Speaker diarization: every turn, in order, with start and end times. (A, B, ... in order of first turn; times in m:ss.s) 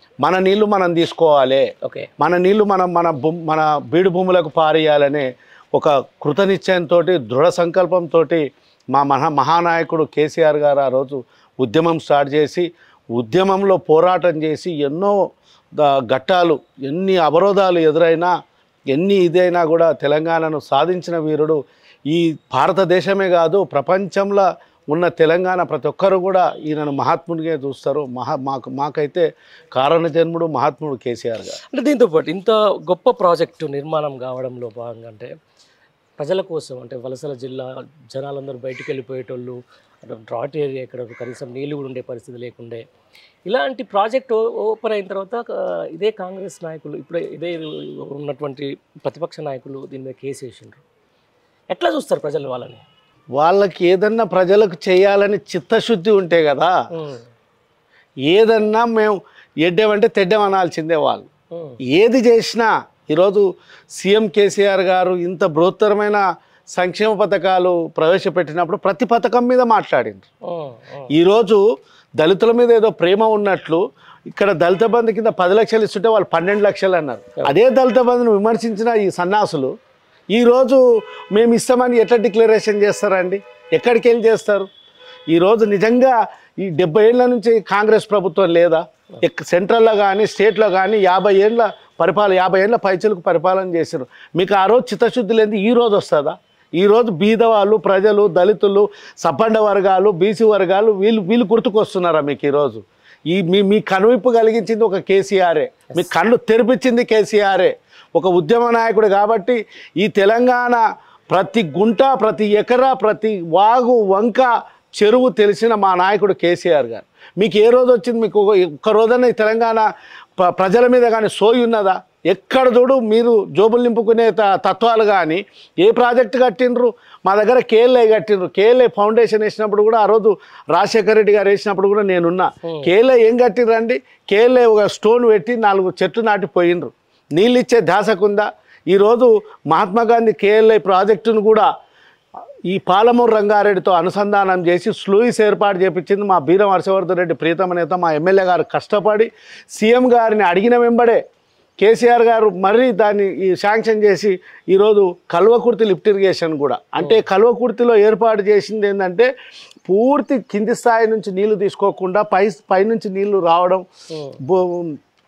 0:00.2-0:01.6 A
0:01.8-0:02.1 B
0:02.2-0:15.2 A
0:15.8-0:18.3 A
0:18.9-0:31.6 A
0:31.7-0:35.3 B
0:36.2-0:42.8 B
0:43.5-0:50.8 B
0:51.7-0:52.8 B
0:53.4-0:56.7 A
0:56.9-0:57.2 B
0:58.3-1:01.3 A
1:01.5-1:01.8 B
1:01.9-1:10.2 A
1:10.5-1:11.1 B
1:11.1-1:11.6 A
1:12.2-1:19.7 A
1:20.3-1:24.6 A
1:25.3-1:59.9 A
2:00.4-2:21.7 A
2:12.6-2:12.9 B
2:22.7-2:31.2 A
2:31.8-2:39.3 A
2:39.9-2:43.8 A
2:44.1-2:44.4 B
2:44.4-2:44.9 A